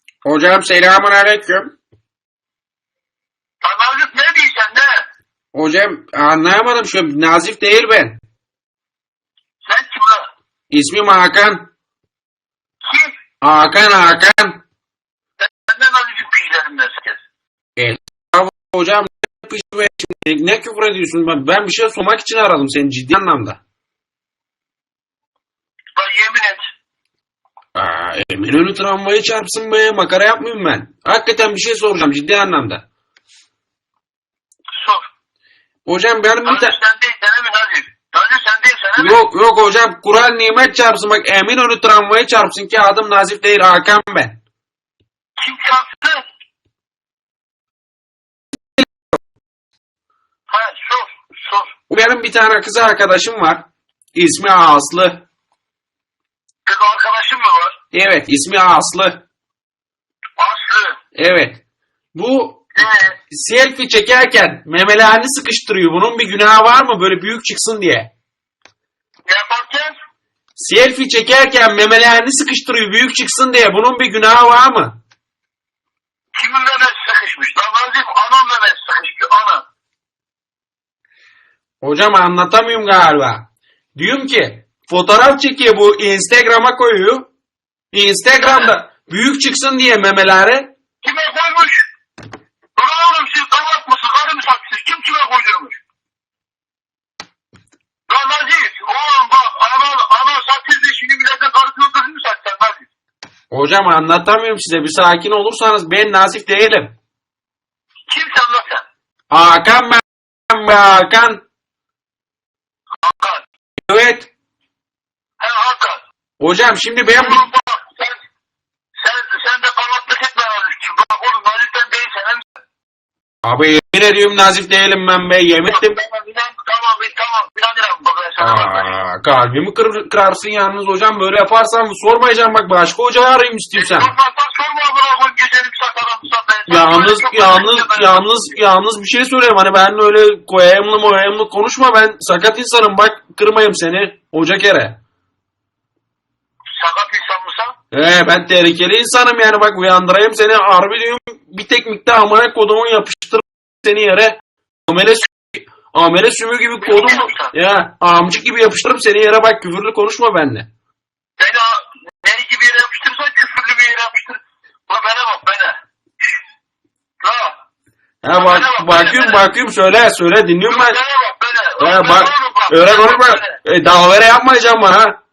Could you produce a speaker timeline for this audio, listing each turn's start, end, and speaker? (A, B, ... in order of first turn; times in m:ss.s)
0:00.2-0:01.7 A
0:03.6-0:05.0 B
0:05.5-0:08.2 A
0:09.6-0:10.3 B
0:10.7-0:11.7 A
0:12.9-0:13.2 B
0:13.4-0:14.6 A
0:15.4-0:17.2 B
0:17.8-0:23.6 A
0:26.0-0:26.6 B
0:27.8-0:32.9 A
0:34.8-0:35.0 B
0:35.9-0:36.8 A
0:36.4-0:39.2 B
0:39.0-0:44.4 A
0:45.4-0:46.2 B
0:50.5-0:51.7 B
0:51.9-0:53.6 A
0:54.2-0:55.2 A
0:56.6-0:57.8 B
0:57.9-0:59.2 A
1:00.4-1:01.0 B
1:01.2-1:01.6 A
1:02.2-1:02.6 A
1:02.8-1:03.2 B
1:03.3-1:08.1 A
1:09.3-1:09.9 B
1:10.6-1:15.0 A
1:16.4-1:19.6 B
1:21.8-1:27.3 A
1:27.9-1:30.7 A
1:28.4-1:28.7 B
1:31.0-1:31.9 B
1:32.8-1:35.8 B
1:38.1-1:42.9 B
1:43.5-1:47.0 A
1:48.1-1:48.8 B
1:49.3-1:51.4 A
1:53.0-1:53.4 B
1:53.9-1:54.3 A
1:55.4-1:56.0 B
1:56.4-1:57.4 A
1:57.2-1:58.2 B
1:59.0-2:02.4 B
2:03.4-2:06.0 A
2:05.7-2:08.9 B
2:08.4-2:14.1 A
2:13.7-2:18.5 B
2:16.7-2:25.0 A
2:26.8-2:27.8 B
2:27.9-2:40.7 A
2:36.8-2:37.5 B
2:41.4-2:45.8 B
2:47.2-2:47.5 B
2:48.2-2:51.0 A
2:48.3-2:49.4 B
2:50.7-2:53.6 B
2:51.8-2:55.2 A